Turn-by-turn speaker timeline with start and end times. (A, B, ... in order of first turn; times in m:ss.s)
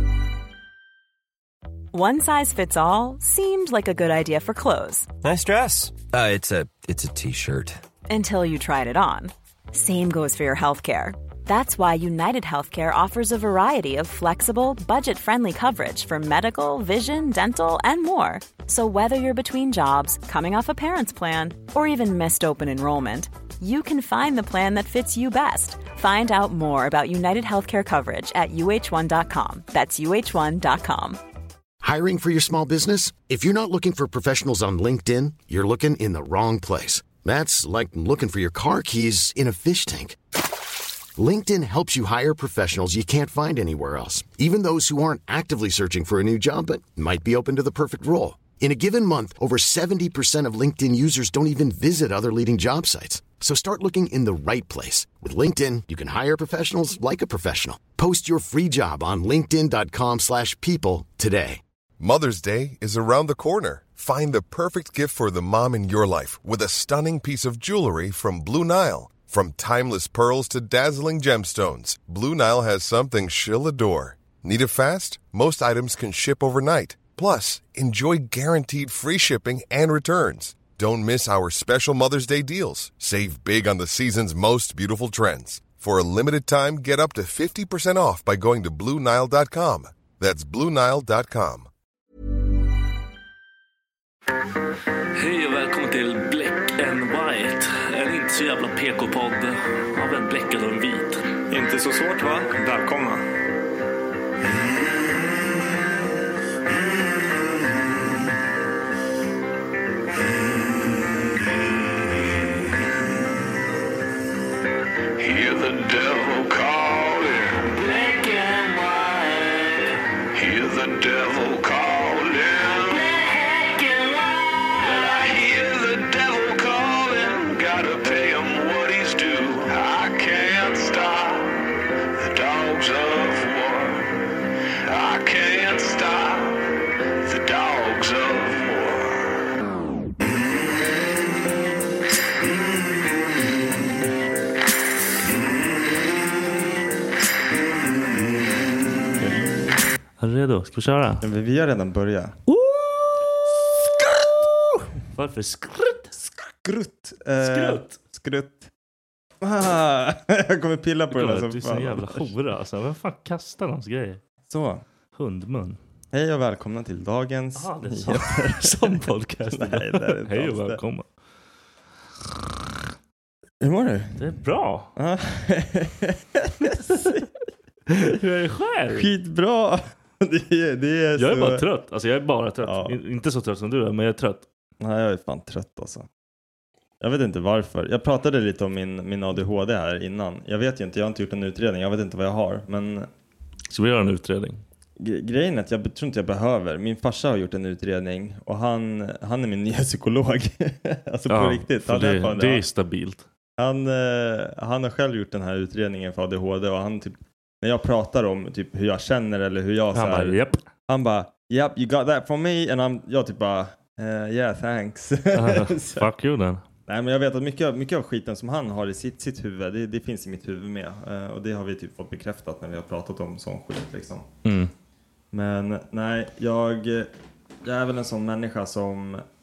0:01.9-0:05.1 A
0:05.2-0:07.8 B
0:08.1-0:31.2 A
0:31.8-0:40.2 C
0:41.2-1:01.6 C
1:02.0-1:31.7 D
1:35.2-1:41.3 E
1:41.5-1:43.2 F
1:55.2-2:11.6 G
2:12.2-2:14.2 G
2:14.8-2:19.5 G
2:30.2-2:31.2 E
2:31.2-2:32.4 F
2:32.5-2:33.3 E
2:35.2-2:36.1 E
2:36.2-2:38.7 F
2:37.4-2:38.0 E
2:39.4-2:42.3 F
2:41.1-2:44.2 E
2:44.5-2:44.8 F
2:45.1-2:45.8 E
2:46.1-2:50.8 F
2:47.6-2:51.1 E
2:53.6-2:54.2 F
2:54.2-2:54.9 E
2:55.0-2:57.3 F
2:56.6-2:57.2 E
2:57.9-2:59.1 E
2:58.9-3:01.6 F
3:01.2-3:04.5 E
3:02.6-3:03.0 F
3:04.8-3:06.1 F
3:07.0-3:13.1 F
3:13.7-3:14.6 E
3:15.0-3:22.6 F
3:21.3-3:23.2 E
3:23.6-3:36.1 F
3:29.9-3:30.6 E
3:35.3-3:36.6 E
3:36.9-3:44.3 F
3:44.4-3:44.7 E
3:45.3-3:47.1 F
3:47.6-3:49.2 F